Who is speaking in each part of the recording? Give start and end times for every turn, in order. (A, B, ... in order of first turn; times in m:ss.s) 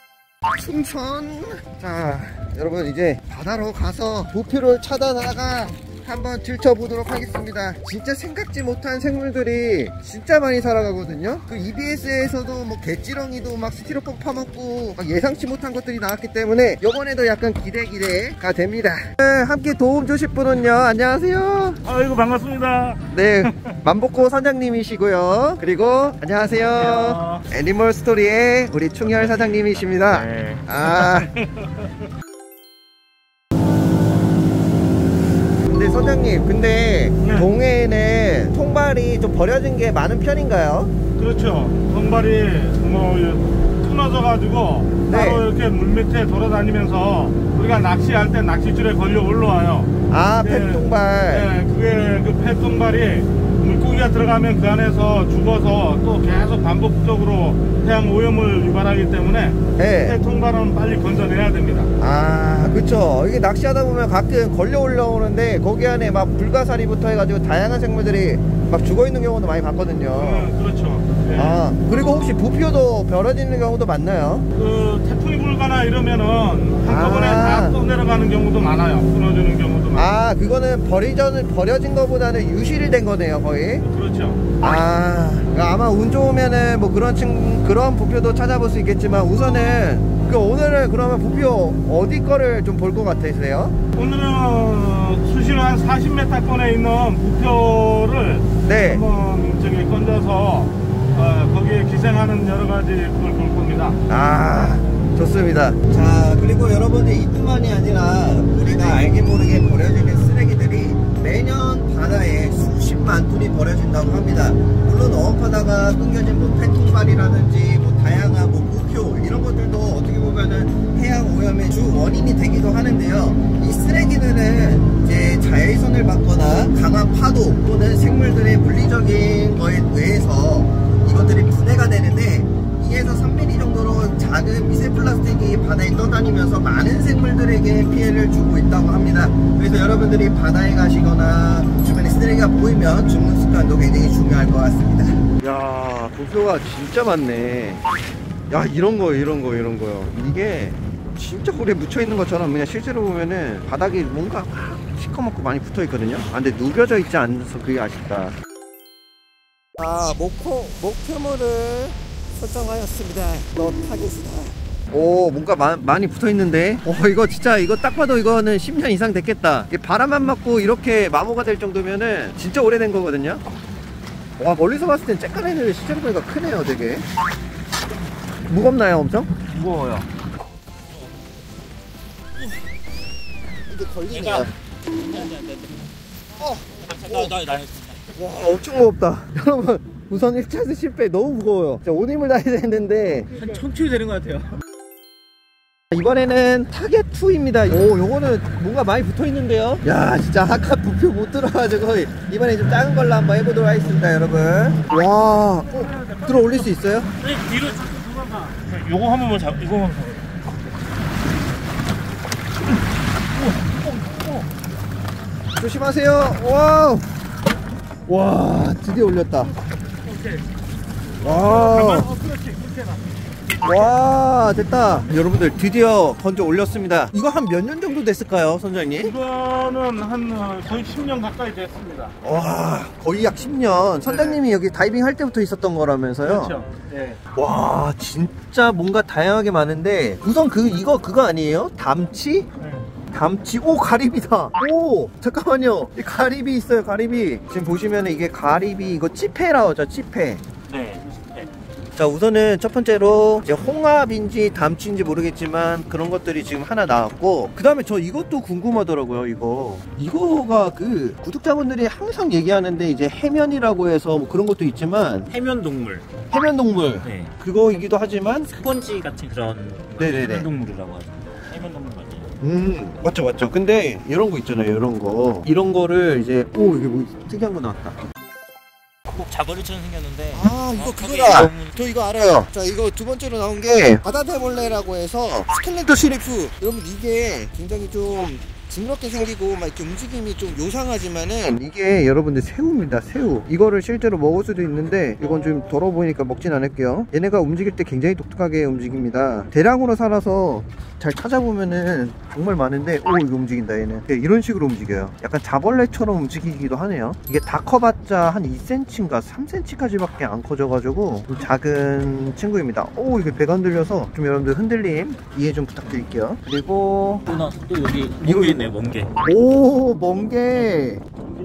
0:00.5-0:21.8 A
0:21.8-0:23.8 B
0:23.1-0:31.3 A
0:26.7-0:27.4 B
0:30.8-0:31.7 B
0:35.6-0:40.9 A
0:37.2-0:37.5 B
0:41.2-0:49.9 B
0:45.1-0:45.4 A
0:50.1-0:51.6 A
0:50.4-1:01.9 B
0:59.8-1:00.2 A
1:02.0-1:10.5 A
1:10.1-1:11.7 B
1:11.3-1:14.5 A
1:14.6-1:20.1 B
1:16.8-1:17.8 A
1:19.9-1:23.8 A
1:23.8-1:24.5 B
1:24.6-1:33.8 A
1:33.9-1:44.0 B
1:38.6-1:39.0 A
1:44.1-2:27.8 A
2:28.5-2:38.3 A
2:39.8-2:53.4 A
2:54.4-2:57.0 A
2:58.5-2:59.3 A
2:59.5-3:00.1 C
3:03.7-3:04.5 A
3:04.1-3:05.8 C
3:06.4-3:07.4 A
3:06.7-3:08.1 C
3:08.1-3:13.3 A
3:13.3-3:14.5 C
3:15.9-3:27.1 A
3:27.2-3:30.3 C
3:33.4-3:34.4 C
3:35.6-3:37.1 A
3:38.0-3:39.5 A
3:40.1-3:40.4 B
3:41.2-3:42.1 A
3:41.2-3:43.1 B
3:43.6-3:49.1 A
3:43.6-3:43.9 B
3:49.0-3:52.2 B
3:52.2-3:56.6 A
3:54.0-3:54.4 B
3:56.2-3:57.2 B
3:57.3-4:02.5 A
4:02.6-4:02.9 B
4:03.1-4:10.4 A
4:10.6-4:11.5 C
4:12.0-4:25.3 A
4:25.3-4:26.2 C
4:26.3-4:28.5 A
4:27.0-4:27.3 C
4:28.4-4:32.4 C
4:30.0-4:30.5 A
4:32.4-4:38.0 A
4:39.1-4:41.9 C
4:40.3-5:17.4 A
5:17.2-5:19.2 C
5:18.2-5:18.6 A
5:19.2-5:21.0 A